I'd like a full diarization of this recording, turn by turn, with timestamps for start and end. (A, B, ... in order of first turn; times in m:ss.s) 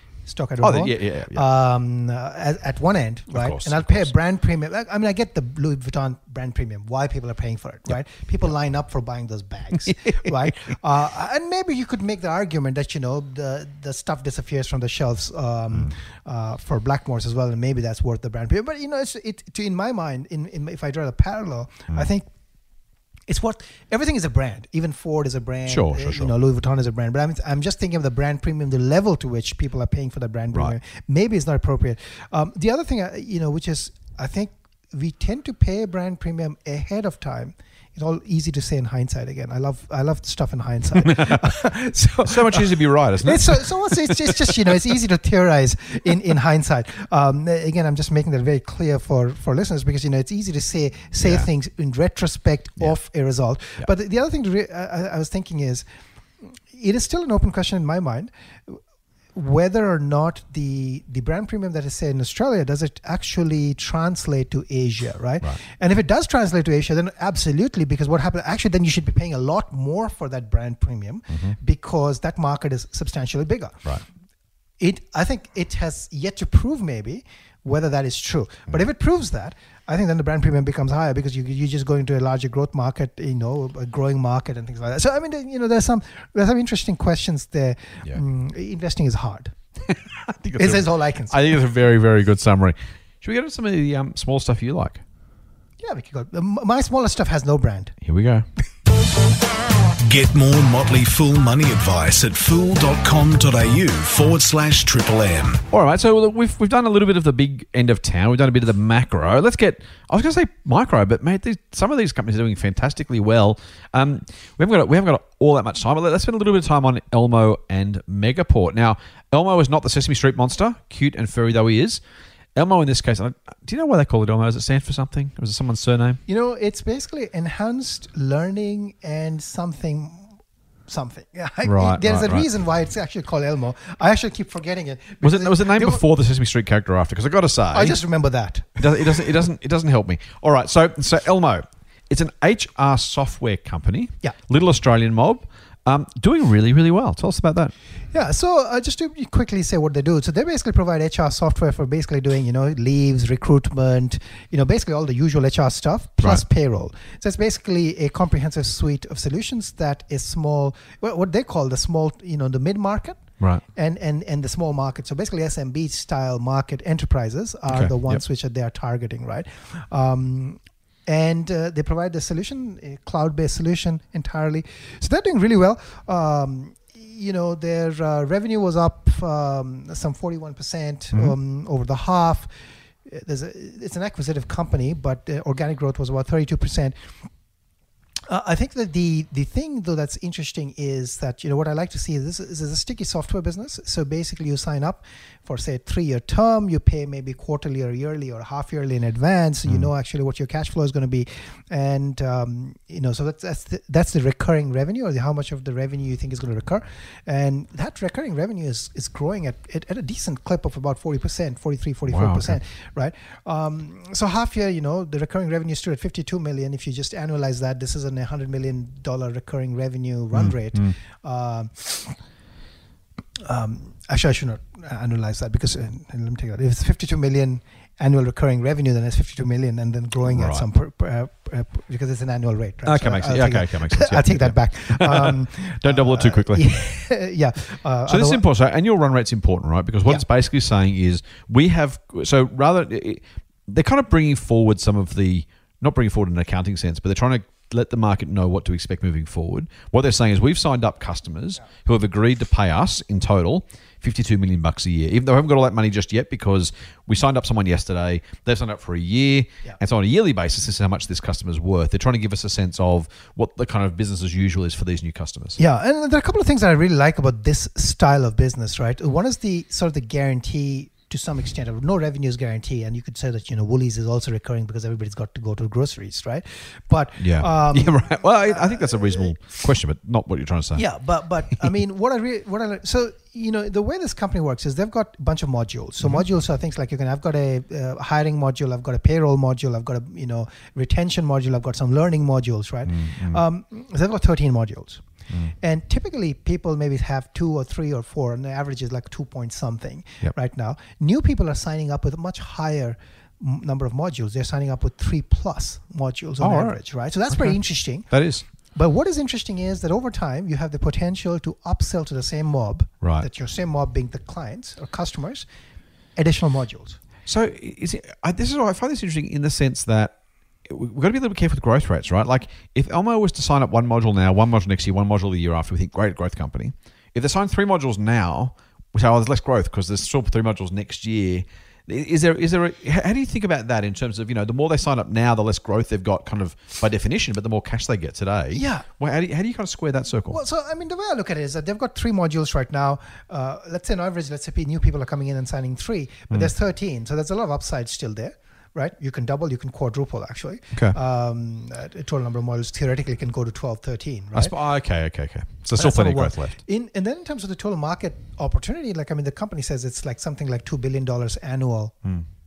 0:00.3-0:22.3 A
0:00.6-0:01.4 B
0:03.3-0:04.1 B
0:09.9-0:10.3 B
0:23.3-0:55.8 A
0:25.7-0:26.3 B
0:41.0-0:41.5 B
0:42.2-0:44.9 B
0:51.2-0:51.5 B
0:56.4-0:58.8 A
0:59.3-1:13.8 A
1:11.3-1:11.6 B
1:14.8-1:29.5 A
1:29.9-1:35.0 B
1:30.6-1:31.4 A
1:35.8-1:38.0 A
1:38.0-1:38.4 B
1:40.0-1:45.6 C
1:45.7-2:02.0 B
2:02.6-2:06.2 B
2:06.3-2:16.0 A
2:11.6-2:12.5 B
2:15.2-2:18.0 B
2:17.7-2:19.3 A
2:18.8-2:27.7 B
2:28.1-3:02.5 A
2:47.7-2:48.2 B
3:03.0-3:07.0 A
3:08.3-3:42.2 A
3:32.1-3:32.6 B
3:40.3-3:41.0 B
3:43.4-3:58.4 A
3:50.2-3:50.7 B
3:52.8-3:56.7 B
3:58.1-4:25.6 B
4:25.6-4:39.3 A
4:37.2-4:40.8 B
4:40.8-4:55.0 A
4:52.8-4:53.4 B
4:55.6-5:15.5 A
5:06.4-5:06.8 B
5:08.1-5:08.4 B
5:16.2-5:17.0 A
5:17.3-5:20.1 B
5:20.7-5:40.4 B
5:38.5-5:38.9 A
5:40.3-5:54.5 A
5:54.3-5:56.6 B
5:55.7-6:02.0 A